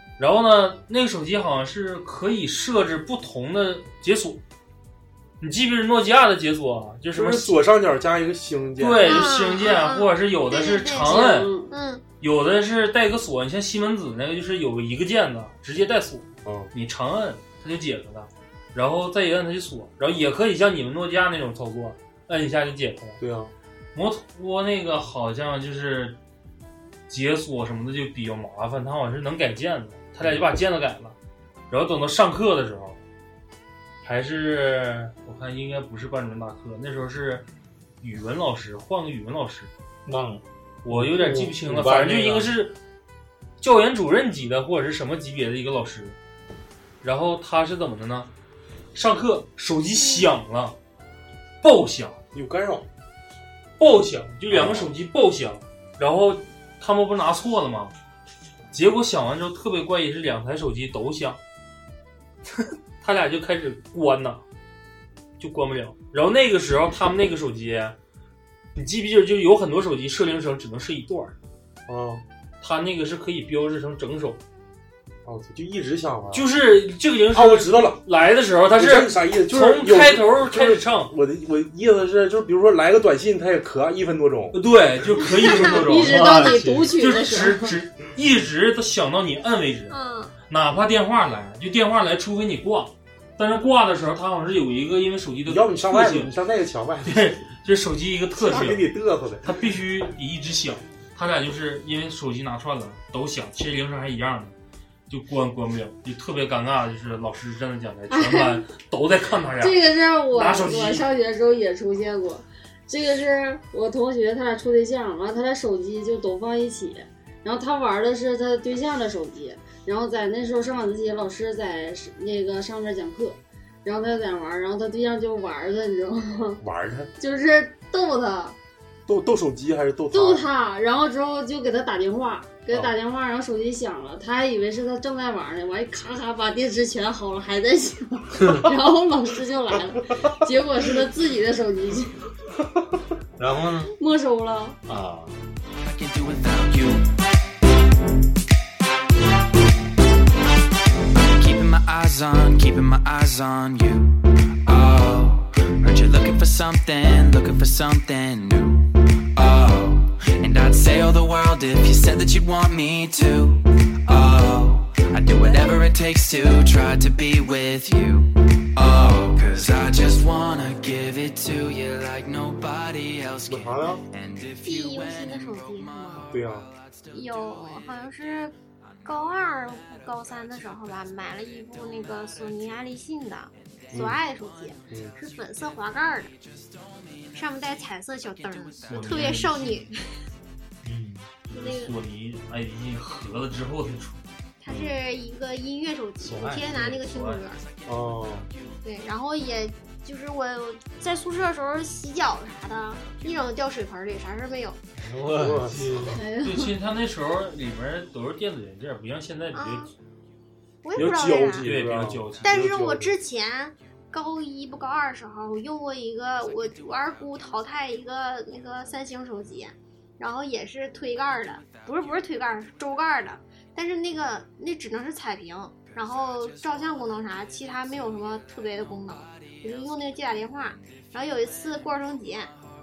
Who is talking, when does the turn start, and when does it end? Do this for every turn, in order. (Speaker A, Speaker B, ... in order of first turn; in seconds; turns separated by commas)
Speaker A: 0.2-4.4, Speaker A: 5.4-7.5, Speaker B: 7.1-9.3, Speaker A: 8.8-11.5, Speaker C: 9.0-12.0, Speaker D: 11.0-11.7, Speaker A: 12.2-23.2, Speaker B: 16.4-16.7, Speaker B: 23.2-23.5, Speaker A: 23.9-26.2, Speaker A: 27.1-31.1, Speaker A: 31.7-33.0, Speaker A: 34.0-37.5, Speaker A: 38.0-39.7, Speaker E: 40.0-42.5, Speaker A: 40.8-42.7, Speaker A: 43.6-46.2, Speaker A: 47.0-48.3, Speaker A: 48.9-50.8, Speaker A: 51.6-52.2, Speaker B: 52.3-52.9, Speaker A: 53.8-57.9, Speaker B: 54.5-54.9, Speaker A: 58.7-61.4, Speaker A: 62.6-64.4, Speaker A: 65.4-68.0, Speaker A: 68.7-71.3, Speaker B: 71.9-72.2, Speaker A: 72.6-74.4, Speaker B: 75.2-76.5, Speaker A: 76.3-81.1, Speaker B: 77.3-78.0, Speaker B: 78.7-84.6, Speaker A: 84.5-89.9, Speaker D: 85.6-87.7, Speaker E: 85.9-87.0, Speaker C: 89.9-90.3, Speaker A: 90.5-96.3, Speaker B: 95.5-97.3, Speaker A: 97.0-98.9, Speaker B: 98.3-99.5, Speaker A: 99.4-104.5, Speaker A: 105.1-111.1, Speaker D: 108.1-108.6, Speaker D: 109.6-126.6, Speaker B: 126.6-127.1, Speaker D: 127.2-128.6, Speaker B: 129.1-130.5, Speaker D: 130.1-142.2, Speaker E: 143.4-143.9, Speaker D: 144.0-144.8, Speaker E: 144.9-145.4, Speaker F: 145.8-147.1, Speaker F: 151.3-176.5, Speaker C: 165.4-165.8, Speaker B: 173.5-174.0, Speaker C: 174.6-176.3, Speaker B: 176.3-176.7, Speaker C: 177.1-186.3, Speaker B: 183.9-184.2, Speaker B: 184.9-185.1, Speaker C: 187.3-190.0, Speaker A: 188.9-189.8, Speaker E: 190.8-191.3, Speaker C: 191.5-191.9, Speaker A: 191.5-194.2, Speaker C: 194.6-197.6, Speaker B: 194.7-195.0, Speaker E: 196.2-196.6, Speaker A: 196.5-197.4, Speaker B: 197.8-198.5, Speaker C: 198.8-204.8, Speaker E: 205.0-206.2, Speaker B: 205.3-206.1, Speaker D: 206.1-206.7, Speaker A: 206.3-209.9, Speaker C: 209.5-209.9, Speaker C: 210.8-211.7, Speaker B: 210.9-213.1, Speaker A: 211.0-212.5, Speaker C: 212.4-232.5